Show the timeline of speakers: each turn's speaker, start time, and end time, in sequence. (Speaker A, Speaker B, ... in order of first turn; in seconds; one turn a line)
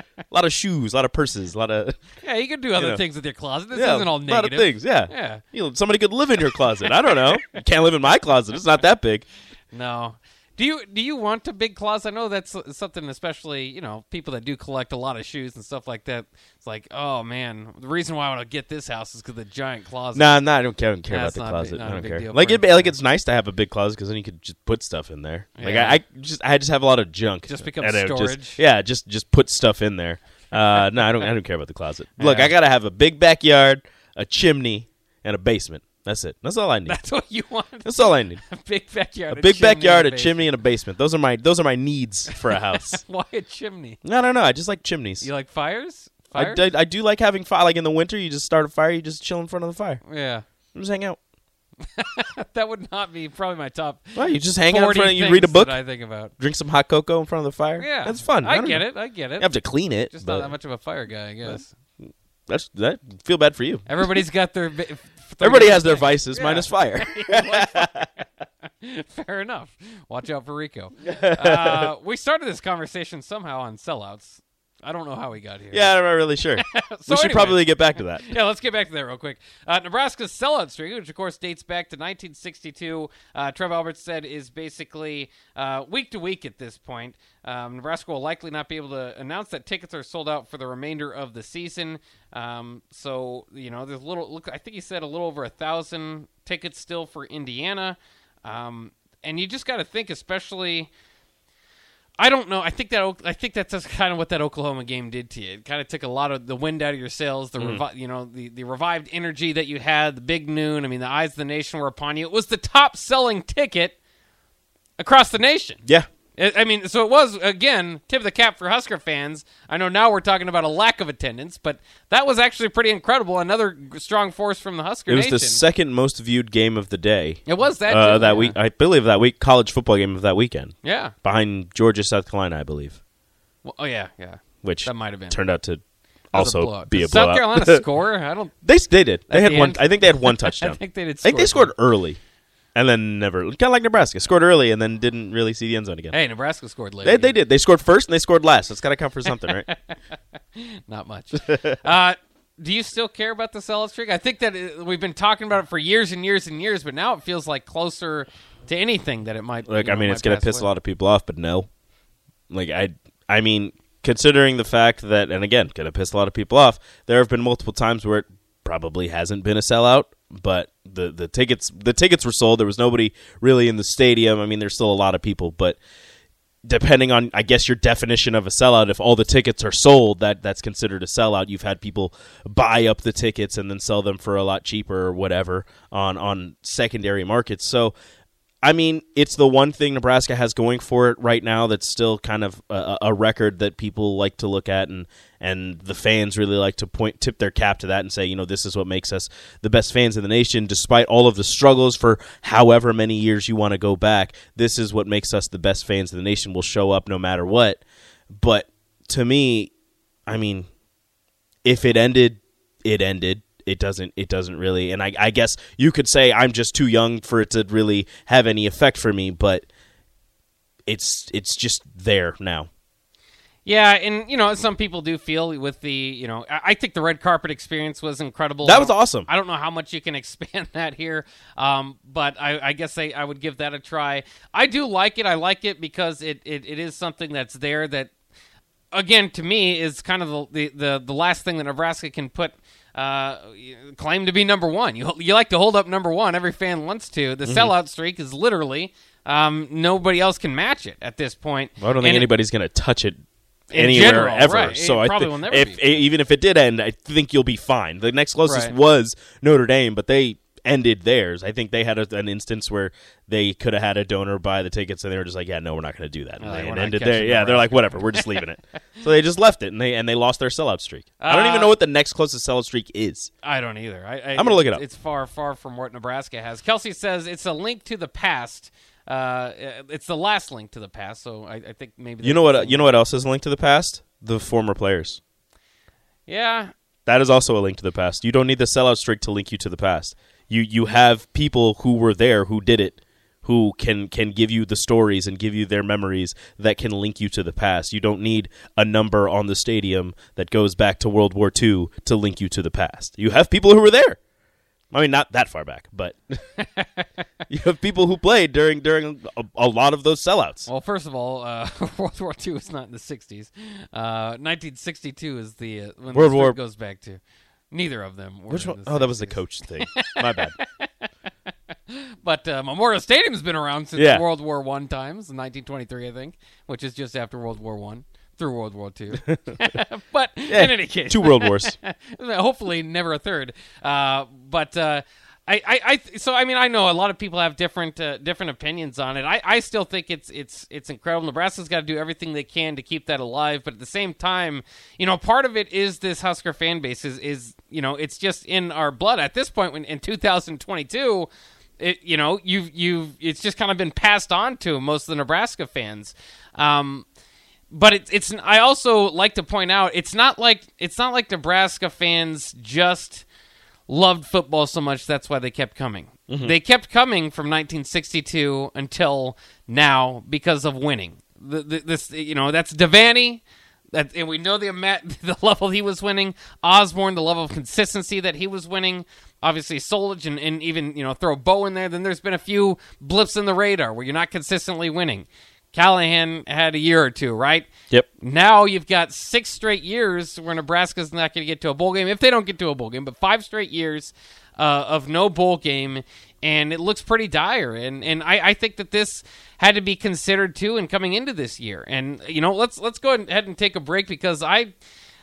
Speaker A: 0.3-2.0
Speaker B: 2.2-5.4
Speaker A: 2.8-3.0
Speaker A: 3.7-9.2
Speaker B: 9.7-20.4
Speaker A: 20.1-37.0
Speaker B: 21.1-23.0
Speaker B: 25.6-26.0
Speaker B: 27.5-28.6
Speaker B: 32.2-32.5
Speaker B: 36.9-40.5
Speaker A: 37.8-38.4
Speaker A: 39.3-43.0
Speaker B: 42.3-44.0
Speaker A: 44.0-45.3
Speaker B: 45.2-46.6
Speaker A: 46.3-50.0
Speaker B: 50.0-50.4
Speaker A: 50.7-51.2
Speaker B: 51.8-56.3
Speaker A: 54.1-55.8
Speaker A: 56.4-58.8
Speaker B: 57.8-59.5
Speaker A: 59.4-60.5
Speaker B: 60.1-61.7
Speaker A: 61.4-64.1
Speaker B: 63.9-68.2
Speaker A: 65.4-68.1
Speaker B: 68.8-75.9
Speaker A: 71.0-71.9
Speaker A: 75.7-78.3
Speaker B: 76.6-77.6
Speaker B: 78.2-100.9
Speaker B: 102.2-114.0
Speaker A: 107.6-107.8
Speaker B: 115.0-115.8
Speaker B: 116.3-125.6
Speaker A: 125.1-133.0
Speaker B: 127.5-128.6
Speaker B: 130.8-131.1
Speaker B: 133.6-135.4
Speaker A: 134.6-135.8
Speaker A: 136.3-137.8
Speaker B: 136.3-138.5
Speaker A: 138.6-142.2
Speaker B: 139.3-141.7
Speaker A: 142.7-146.2
Speaker B: 146.1-147.3
Speaker A: 147.0-149.7
Speaker B: 149.3-149.7
Speaker B: 150.6-160.7
Speaker A: 151.3-151.6
Speaker A: 159.7-161.7
Speaker A: 162.5-175.8
Speaker A: 176.7-187.9
Speaker A: 188.6-207.8
Speaker A: 208.3-209.7
Speaker A: 210.3-210.7
Speaker A: 211.6-219.7
Speaker A: 220.9-222.7
Speaker B: 223.6-238.1
Speaker A: 228.6-229.3
Speaker B: 238.9-252.3
Speaker A: 247.4-247.7
Speaker A: 251.8-253.2
Speaker B: 253.7-256.1
Speaker A: 253.7-273.3
Speaker B: 258.4-258.7
Speaker B: 266.4-268.4
Speaker B: 271.2-271.8
Speaker B: 273.4-282.9
Speaker A: 274.3-274.8
Speaker A: 282.2-285.2
Speaker B: 286.3-286.7
Speaker A: 287.1-304.2
Speaker A: 304.9-306.4
Speaker B: 306.6-307.1
Speaker A: 307.5-310.7
Speaker B: 310.6-320.9
Speaker A: 316.1-316.6
Speaker A: 318.5-320.6
Speaker B: 321.9-357.1
Speaker A: 323.9-324.2
Speaker A: 329.3-329.6
Speaker A: 330.5-331.8
Speaker B: 357.7-363.2
Speaker B: 363.9-373.4
Speaker A: 366.3-366.5
Speaker B: 373.9-404.7